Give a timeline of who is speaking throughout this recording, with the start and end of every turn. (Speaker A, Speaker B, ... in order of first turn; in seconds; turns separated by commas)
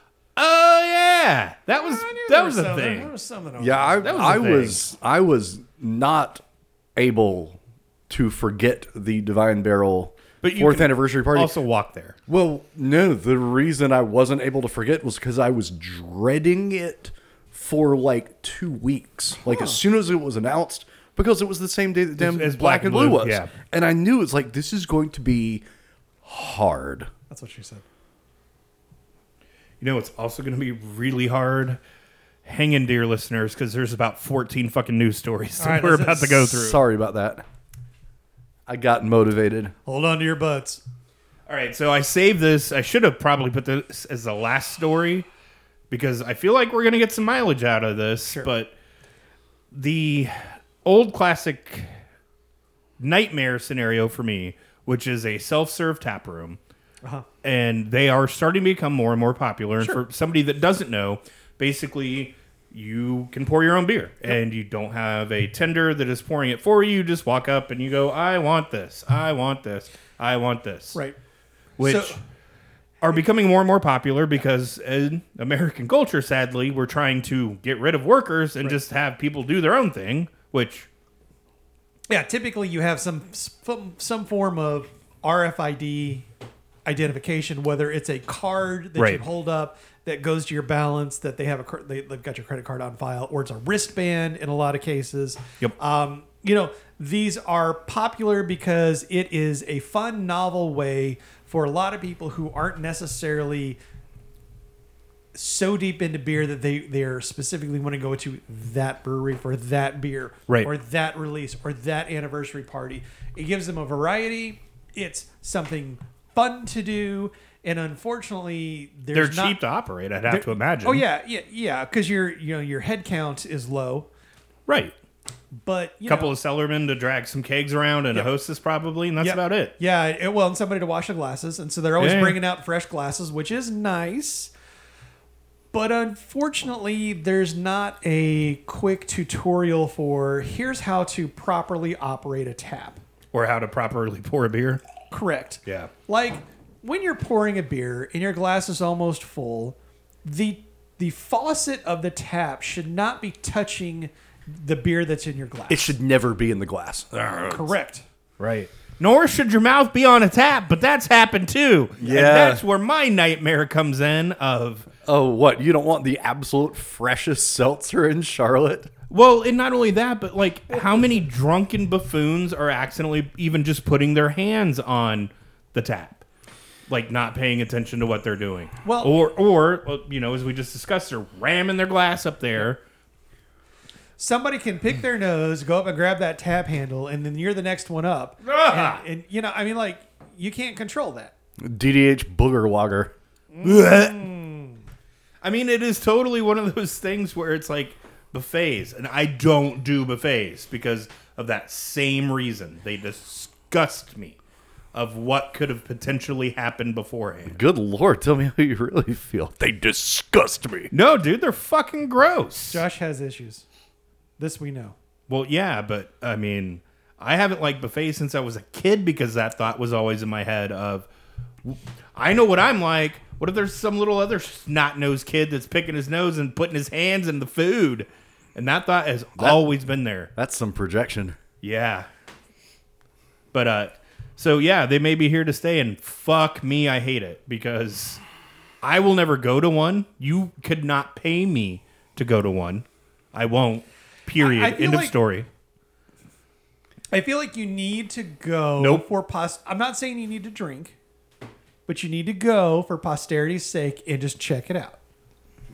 Speaker A: 0.3-3.1, Speaker B: 1.7-4.5, Speaker C: 3.6-6.4, Speaker A: 4.0-4.8, Speaker C: 7.0-11.6, Speaker A: 10.4-12.2, Speaker C: 12.3-25.6, Speaker B: 19.4-19.8, Speaker A: 22.2-23.5, Speaker C: 26.2-27.1, Speaker B: 27.3-27.8, Speaker A: 29.8-31.8, Speaker A: 32.4-36.8, Speaker B: 35.6-36.5, Speaker C: 36.5-37.4, Speaker C: 38.7-39.7, Speaker B: 39.9-40.8, Speaker A: 41.5-45.3, Speaker A: 45.9-48.7, Speaker A: 49.7-51.9, Speaker A: 53.0-56.6, Speaker A: 57.4-71.0, Speaker A: 71.8-72.1, Speaker B: 71.8-72.2, Speaker A: 73.0-80.9, Speaker B: 82.1-86.3, Speaker B: 86.8-103.8, Speaker B: 105.3-119.6, Speaker A: 119.1-121.0, Speaker B: 120.3-124.1, Speaker A: 124.7-124.9, Speaker B: 125.6-126.3, Speaker A: 126.0-129.7, Speaker B: 129.2-134.5, Speaker A: 132.0-132.4, Speaker B: 135.7-143.0, Speaker A: 143.3-144.8, Speaker B: 145.1-155.9, Speaker A: 145.7-145.9, Speaker C: 155.7-157.7, Speaker B: 157.5-158.0, Speaker A: 158.4-164.9, Speaker C: 162.0-162.6, Speaker C: 165.0-168.9, Speaker A: 169.1-176.2, Speaker A: 176.9-182.8, Speaker B: 178.8-179.1, Speaker B: 184.2-191.3, Speaker A: 188.4-189.0, Speaker C: 191.6-193.1, Speaker B: 193.5-194.8, Speaker A: 193.6-194.3, Speaker A: 195.4-204.4, Speaker A: 204.9-207.6, Speaker C: 207.5-210.9, Speaker A: 210.9-212.8, Speaker B: 212.7-213.6, Speaker B: 214.4-214.9, Speaker A: 215.3-221.1, Speaker A: 221.6-230.3, Speaker C: 229.4-229.6, Speaker C: 230.3-231.4, Speaker A: 231.6-232.1, Speaker A: 233.5-238.2, Speaker A: 238.8-245.5, Speaker B: 244.4-245.1, Speaker B: 247.1-250.9, Speaker A: 248.8-249.1, Speaker B: 251.9-255.0